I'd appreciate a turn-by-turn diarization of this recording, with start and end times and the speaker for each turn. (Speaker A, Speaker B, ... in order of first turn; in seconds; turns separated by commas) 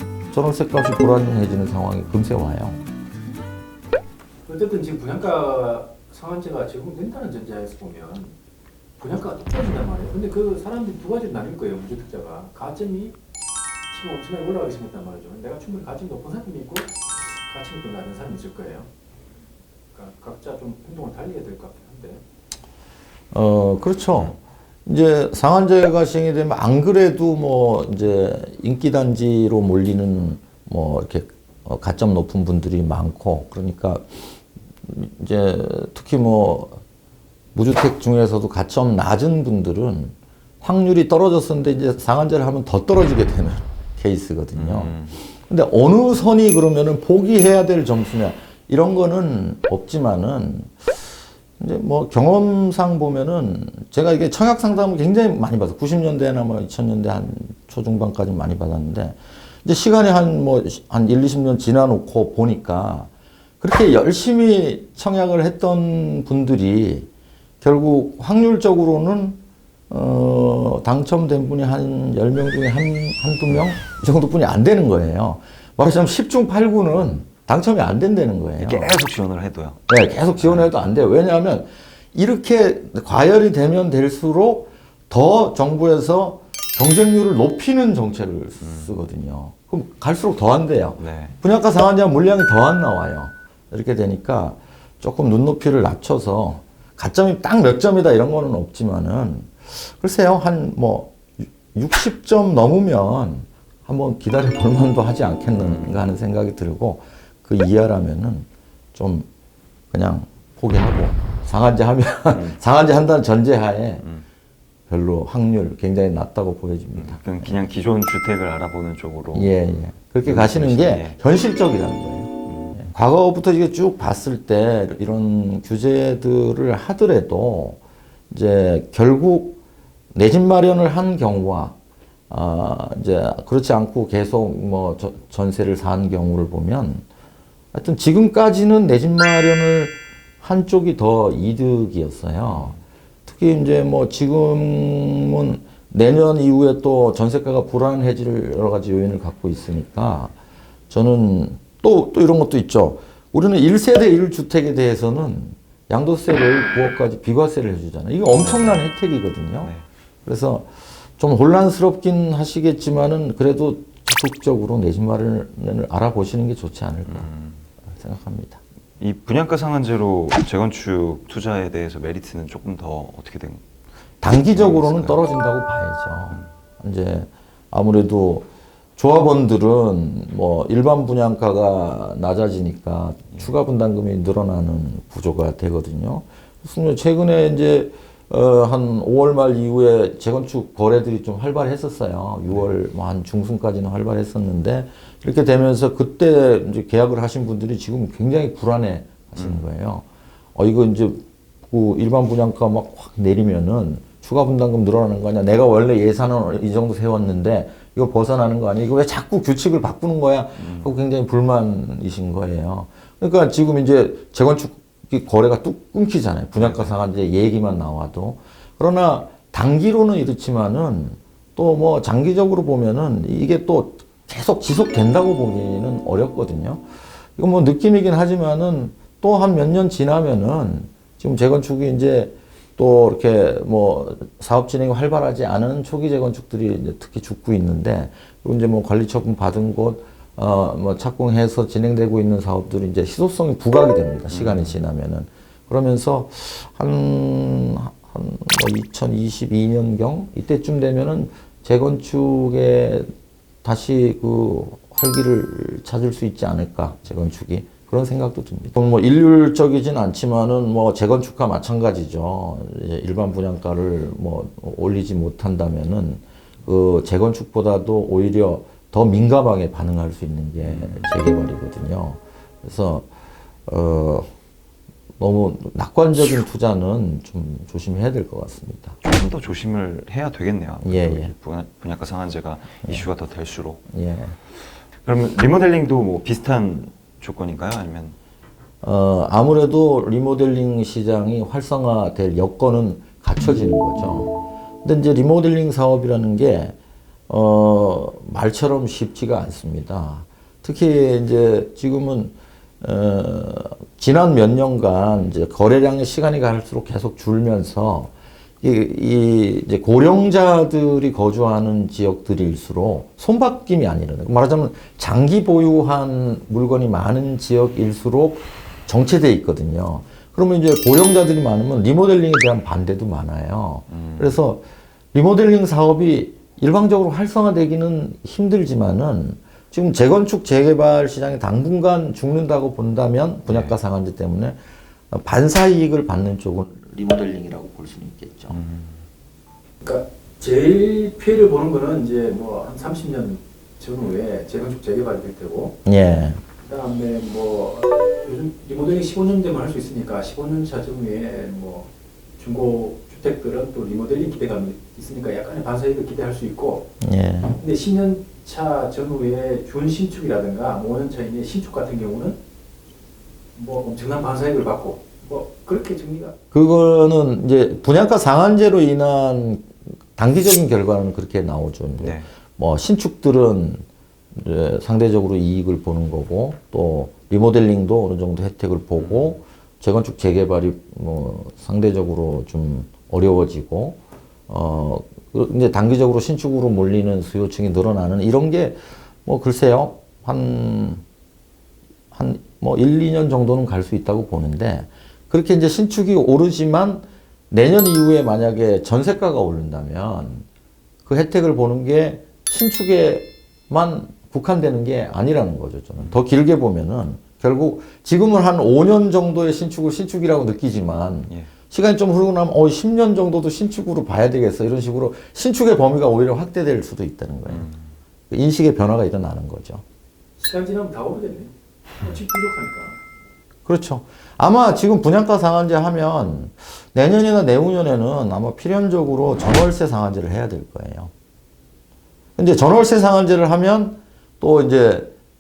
Speaker A: 0.3-2.8, Speaker B: 4.5-8.3, Speaker B: 9.0-13.2, Speaker B: 13.9-18.9, Speaker B: 19.9-22.2, Speaker A: 23.3-34.2, Speaker A: 34.8-36.8, Speaker A: 37.5-63.1, Speaker C: 44.5-45.2, Speaker A: 63.6-67.1, Speaker A: 67.6-69.4, Speaker A: 69.9-79.0, Speaker C: 78.6-79.8, Speaker A: 79.9-109.3, Speaker C: 80.4-80.7, Speaker C: 88.6-88.9, Speaker C: 91.0-91.4, Speaker C: 105.6-106.0, Speaker A: 109.9-114.0, Speaker C: 114.0-114.3, Speaker A: 114.9-117.5, Speaker C: 117.0-119.6, Speaker A: 119.3-127.8, Speaker C: 120.2-121.2, Speaker C: 122.5-122.8, Speaker A: 128.3-129.6, Speaker A: 130.1-131.8, Speaker A: 132.3-137.1, Speaker A: 137.7-150.3, Speaker C: 142.5-142.8, Speaker A: 150.9-159.7, Speaker C: 158.3-158.8, Speaker A: 160.2-167.3, Speaker C: 167.1-167.7, Speaker A: 167.9-168.6, Speaker C: 169.0-173.6, Speaker A: 174.2-178.5, Speaker C: 174.5-175.2, Speaker A: 179.0-226.8, Speaker C: 199.4-199.7, Speaker C: 210.6-210.9, Speaker C: 216.6-216.9, Speaker A: 227.4-253.1, Speaker C: 244.3-244.8, Speaker A: 253.6-273.1, Speaker C: 270.6-271.1, Speaker A: 273.7-274.3, Speaker A: 275.2-279.0, Speaker C: 279.0-283.8, Speaker A: 280.8-281.3, Speaker A: 283.9-284.4, Speaker C: 285.0-288.2, Speaker A: 288.8-294.3, Speaker A: 294.8-296.8, Speaker A: 297.3-334.6, Speaker C: 323.9-324.4, Speaker C: 333.5-333.8, Speaker A: 335.1-338.6, Speaker C: 338.5-339.1, Speaker B: 339.8-345.8, Speaker A: 345.9-346.4, Speaker B: 346.6-356.9, Speaker A: 357.0-357.6, Speaker B: 357.6-362.4, Speaker B: 363.6-366.4, Speaker A: 366.5-391.0, Speaker C: 372.0-372.3, Speaker C: 379.0-379.3, Speaker A: 392.1-400.5, Speaker A: 401.0-417.7, Speaker C: 417.5-417.9, Speaker A: 418.3-419.8, Speaker B: 420.4-423.0, Speaker A: 423.7-431.1, Speaker A: 432.4-435.1